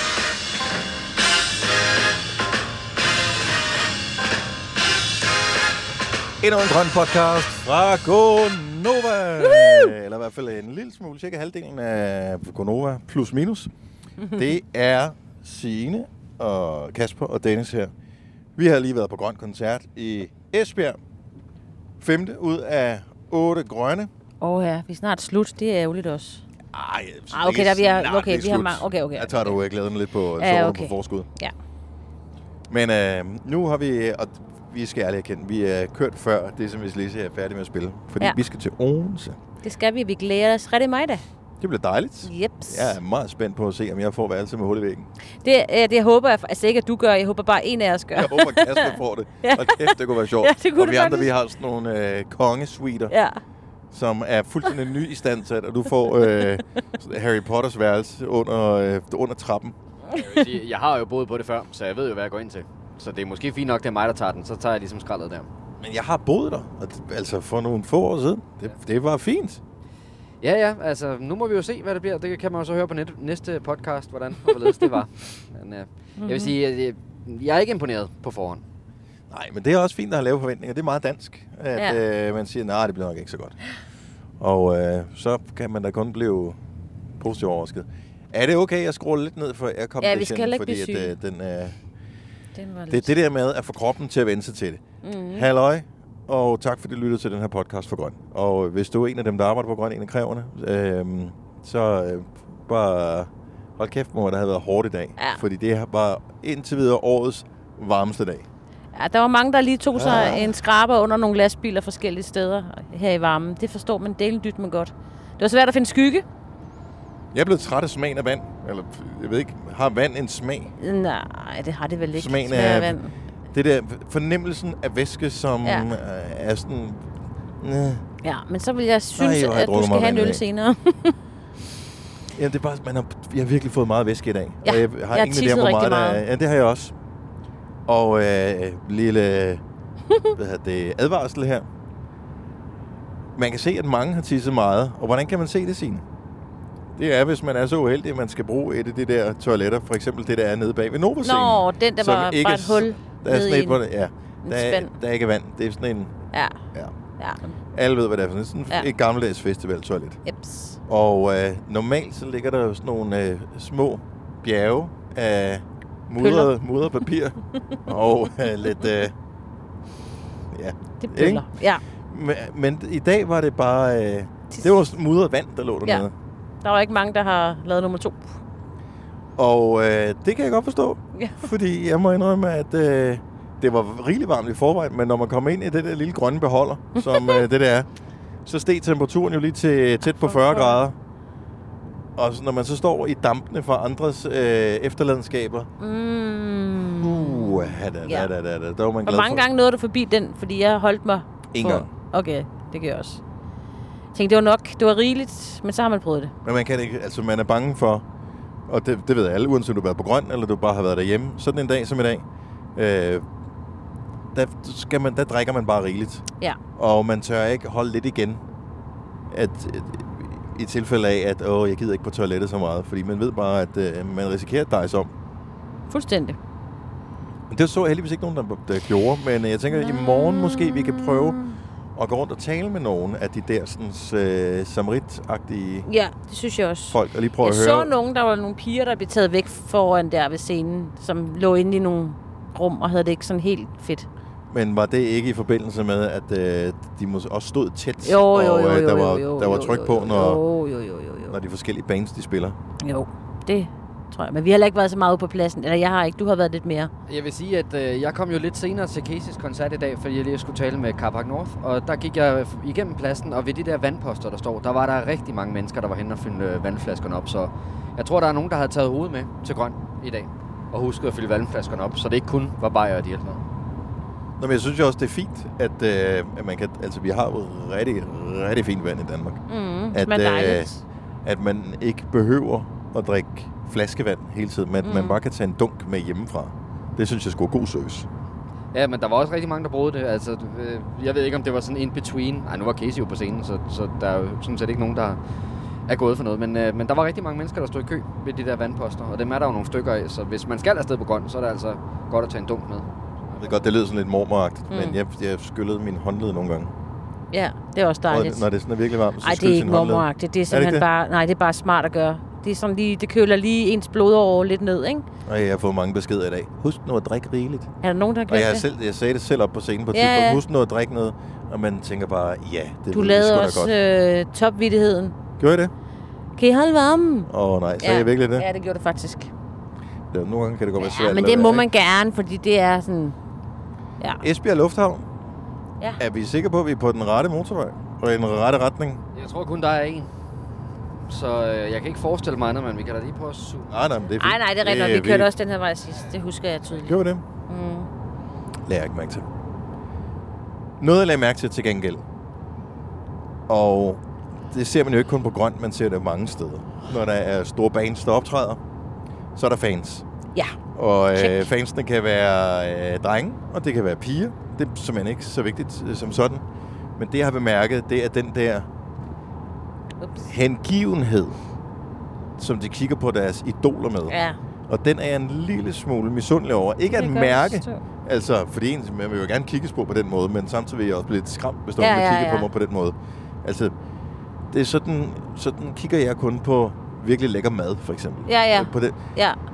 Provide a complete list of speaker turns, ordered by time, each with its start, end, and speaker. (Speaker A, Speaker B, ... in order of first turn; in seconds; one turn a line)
Speaker A: 6.4-13.7
Speaker B: 9.4-9.9
Speaker A: 14.3-17.9
Speaker A: 18.6-21.0
Speaker A: 22.0-24.1
Speaker B: 24.4-26.4
Speaker A: 26.7-31.3
Speaker B: 27.3-29.6
Speaker B: 30.4-31.5
Speaker A: 32.7-39.4
Speaker B: 39.6-41.2
Speaker A: 41.6-45.1
Speaker B: 42.2-42.9
Speaker B: 45.4-51.3
Speaker A: 48.1-53.1
Speaker B: 53.1-53.4
Speaker A: 53.9-59.7
Speaker C: 60.1-65.5
Speaker A: 65.8-69.6
Speaker C: 70.4-78.6
Speaker B: 76.2-76.5
Speaker A: 79.3-83.6
Speaker A: 84.4-86.6
Speaker A: 87.2-91.8
Speaker B: 90.0-91.1
Speaker B: 92.5-93.1
Speaker A: 92.9-94.8
Speaker B: 95.0-95.5
Speaker A: 95.3-108.5
Speaker B: 108.9-116.2
Speaker A: 109.9-110.5
Speaker A: 117.3-120.7
Speaker B: 120.8-123.1
Speaker A: 122.1-123.0
Speaker A: 123.5-128.0
Speaker B: 128.2-131.2
Speaker A: 129.2-130.4
Speaker A: 132.3-136.9
Speaker B: 134.6-136.2
Speaker A: 137.9-139.6
Speaker A: 140.3-141.7
Speaker A: 143.3-146.0
Speaker A: 146.9-156.1
Speaker B: 151.2-153.8
Speaker B: 154.4-154.9
Speaker B: 156.3-156.6
Speaker B: 157.2-157.5
Speaker A: 157.7-160.2
Speaker B: 160.2-160.8
Speaker A: 160.9-169.1
Speaker B: 166.2-166.5
Speaker A: 170.5-171.5
Speaker B: 171.0-171.8
Speaker A: 172.1-176.1
Speaker B: 176.6-178.3
Speaker A: 179.4-187.9
Speaker B: 181.1-181.4
Speaker B: 186.9-187.4
Speaker A: 188.4-190.9
Speaker B: 190.0-190.8
Speaker A: 192.2-195.7
Speaker B: 195.8-198.3
Speaker A: 197.0-199.4
Speaker B: 199.0-203.2
Speaker A: 201.5-201.9
Speaker B: 204.1-206.3
Speaker A: 206.4-208.0
Speaker A: 208.7-213.2
Speaker A: 214.3-216.2
Speaker A: 216.8-218.4
Speaker A: 219.3-225.1
Speaker B: 225.9-226.4
Speaker A: 227.5-231.4
Speaker B: 229.7-231.6
Speaker A: 231.9-235.9
Speaker B: 235.8-244.1
Speaker A: 236.9-237.9
Speaker A: 244.5-250.4
Speaker B: 248.0-251.3
Speaker A: 251.3-252.6
Speaker B: 252.8-256.9
Speaker C: 257.1-273.4
Speaker A: 274.4-280.7
Speaker B: 279.5-280.8
Speaker A: 281.2-288.1
Speaker B: 284.8-285.2
Speaker C: 288.7-295.2
Speaker C: 295.9-303.4
Speaker A: 303.4-306.7
Speaker B: 304.7-305.0
Speaker B: 307.3-308.4
Speaker A: 308.1-310.9
Speaker B: 309.2-315.1
Speaker A: 315.2-317.7
Speaker B: 317.8-318.6
Speaker A: 318.3-323.7
Speaker B: 319.9-320.4
Speaker B: 322.9-325.1
Speaker A: 325.4-325.7
Speaker B: 326.4-327.3
Speaker A: 327.3-328.4
Speaker B: 327.8-329.3
Speaker A: 330.1-331.6
Speaker B: 330.8-333.1
Speaker A: 334.2-335.1
Speaker A: 336.0-339.0
Speaker C: 339.1-340.1
Speaker C: 341.1-343.7
Speaker A: 343.7-345.3
Speaker B: 344.2-347.9
Speaker A: 346.8-347.2
Speaker A: 348.6-349.2
Speaker A: 350.8-352.0
Speaker A: 353.5-358.6
Speaker A: 359.3-360.0
Speaker A: 360.7-366.4
Speaker B: 361.1-361.5
Speaker A: 367.0-368.7
Speaker B: 370.0-370.3
Speaker A: 370.2-371.4
Speaker A: 372.4-374.1
Speaker B: 374.1-374.4
Speaker A: 374.7-383.7
Speaker B: 376.9-377.8
Speaker B: 381.8-382.5
Speaker A: 384.5-389.0
Speaker B: 388.3-389.4